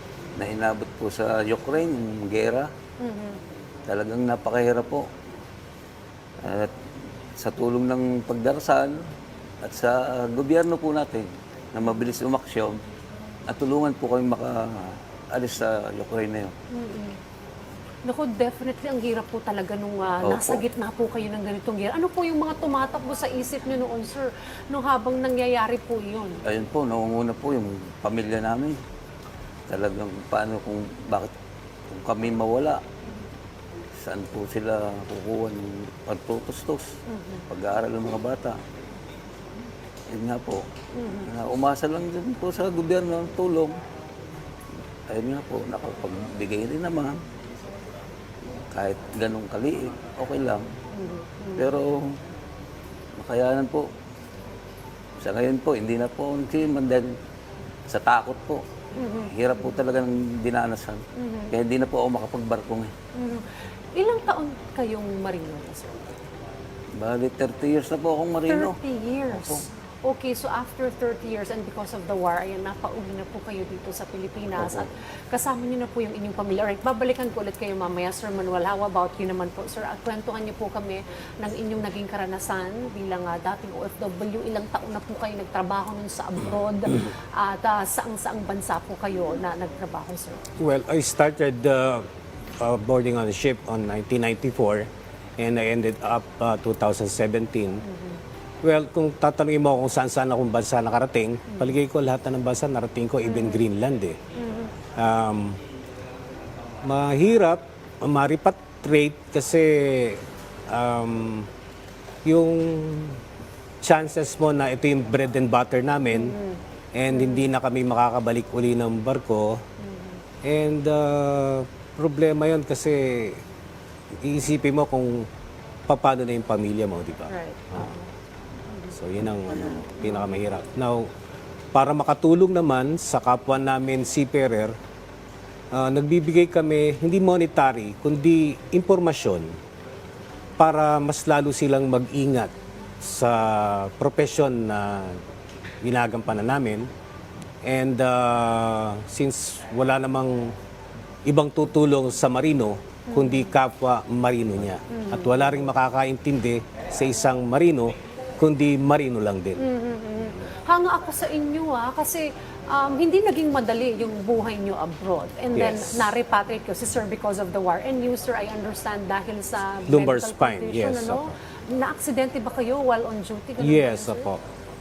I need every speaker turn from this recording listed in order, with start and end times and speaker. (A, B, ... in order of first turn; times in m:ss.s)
0:00.4-0:02.7 A
0:03.0-0:03.4 B
0:03.9-0:05.0 A
0:06.4-0:06.7 A
0:07.4-0:09.0 A
0:09.6-0:12.8 A
0:13.5-0:16.6 A
0:16.7-0:17.2 B
0:18.0-0:26.4 B
0:20.2-0:20.6 A
0:26.4-0:28.8 A
0:29.7-0:31.3 A
0:31.9-0:32.8 A
0:34.0-0:37.0 A
0:37.1-0:37.4 B
0:37.5-0:38.6 A
0:40.1-0:40.6 A
0:40.9-0:41.3 B
0:41.2-0:43.8 A
0:45.1-0:47.2 A
0:48.7-0:50.6 A
0:50.9-0:51.7 B
0:51.6-0:52.1 A
0:53.2-0:53.9 A
0:55.2-0:57.1 A
0:57.9-0:58.6 A
0:59.0-0:59.3 B
0:59.2-1:02.9 A
1:01.2-1:01.5 B
1:03.1-1:06.1 B
1:07.0-1:08.8 A
1:08.5-1:30.4 B
1:09.3-1:09.6 A
1:30.6-1:32.1 C
1:32.6-1:37.8 C
1:37.9-1:38.2 B
1:38.6-1:44.2 C
1:43.2-1:43.6 B
1:44.4-1:44.7 B
1:45.0-1:45.6 C
1:46.8-1:51.5 C
1:52.2-1:53.2 C
1:53.8-1:56.4 C
1:56.1-1:57.4 B
1:56.9-1:59.6 C
1:59.8-2:00.2 B
2:00.4-2:03.4 C
2:04.2-2:05.3 C
2:05.9-2:07.8 C
2:07.3-2:08.1 B
2:08.9-2:11.1 C
2:09.8-2:10.2 B
2:11.7-2:14.7 C
2:15.7-2:19.5 C
2:20.6-2:25.2 C
2:25.8-2:26.9 C
2:27.6-2:30.5 C
2:31.2-2:39.6 C
2:33.1-2:33.5 B
2:34.9-2:35.6 B
2:39.6-2:54.3 B
2:45.5-2:46.1 C
2:49.9-2:51.3 C
2:53.6-2:54.4 C